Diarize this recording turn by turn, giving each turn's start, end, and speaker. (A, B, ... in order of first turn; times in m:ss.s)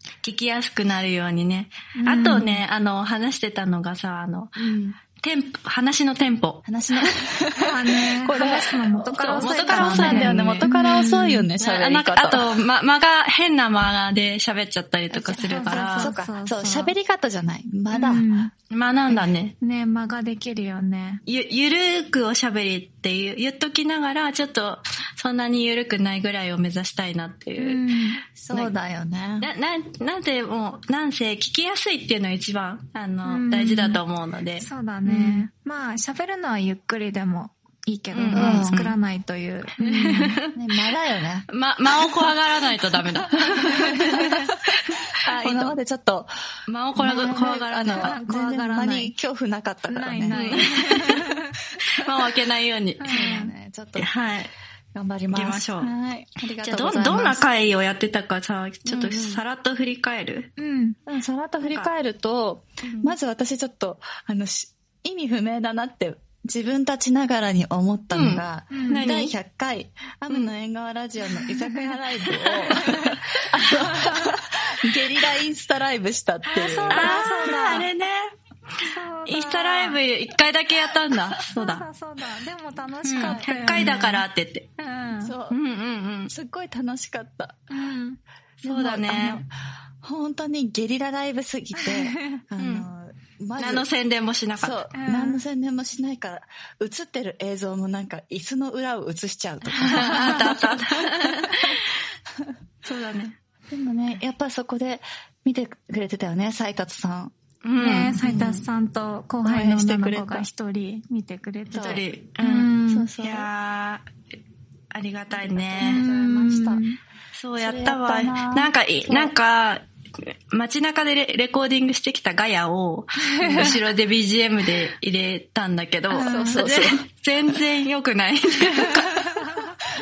0:00.2-0:04.6 A
0:02.0-0:02.6 B
0:04.6-0:05.0 C
0:05.2-0:06.7 A
0:06.7-0:12.6 C
0:07.6-0:11.5 B
0:09.2-0:10.7 A
0:11.6-0:16.1 A
0:15.1-0:18.3 C
0:15.3-0:16.9 B
0:17.9-0:18.5 B
0:18.7-0:19.6 A
0:19.6-0:21.2 B
0:21.3-0:28.7 A
0:27.6-0:28.2 B
0:28.4-0:29.5 C
0:29.4-0:35.5 A
0:33.2-0:34.0 B
0:34.6-0:40.4 B
0:38.1-0:39.0 A
0:38.3-0:39.0 C
0:39.8-0:40.6 A
0:39.8-0:42.4 C
0:41.5-0:45.8 A
0:43.0-0:44.5 C
0:45.2-0:46.3 C
0:46.7-0:48.2 A
0:47.0-0:49.1 B
0:47.0-0:50.9 C
0:49.9-0:51.6 B
0:50.3-0:51.2 A
0:51.9-0:53.4 A
0:53.0-0:53.5 B
0:53.1-0:54.1 C
0:54.0-0:54.5 A
0:55.0-0:57.5 C
0:55.3-0:55.9 A
0:56.5-1:00.5 A
0:58.9-0:59.4 C
1:00.6-1:01.0 B
1:01.1-1:17.3 C
1:01.6-1:01.9 A
1:02.8-1:03.2 A
1:08.1-1:09.4 A
1:08.7-1:09.1 B
1:11.2-1:13.0 B
1:12.6-1:13.6 A
1:13.8-1:14.4 B
1:16.5-1:17.9 B
1:16.9-1:21.8 A
1:18.8-1:20.0 B
1:21.3-1:24.3 B
1:23.0-1:24.7 A
1:23.2-1:23.5 C
1:24.8-1:25.4 B
1:25.2-1:25.6 C
1:25.5-1:26.3 A
1:26.3-1:27.6 C
1:27.7-1:28.2 B
1:28.6-1:29.4 A
1:28.6-1:29.5 C
1:30.0-1:33.9 C
1:31.8-1:32.4 B
1:32.6-1:32.9 A
1:33.6-1:34.8 A
1:34.6-1:41.7 C
1:34.9-1:35.4 B
1:39.7-1:40.6 B
1:39.8-1:42.0 A
1:42.8-1:43.4 A
1:43.7-1:47.3 C
1:47.6-1:48.2 A
1:47.8-1:53.1 B
1:48.2-1:48.7 C
1:49.4-1:50.5 C
1:51.7-1:52.0 C
1:51.7-1:54.1 A
1:52.8-1:53.5 C
1:54.9-1:56.0 A
1:55.3-1:56.9 C
1:55.8-1:57.0 B
1:57.3-2:09.6 A
1:57.6-1:59.3 C
2:03.2-2:03.8 B
2:06.1-2:06.7 B
2:06.1-2:07.0 C
2:08.6-2:09.8 B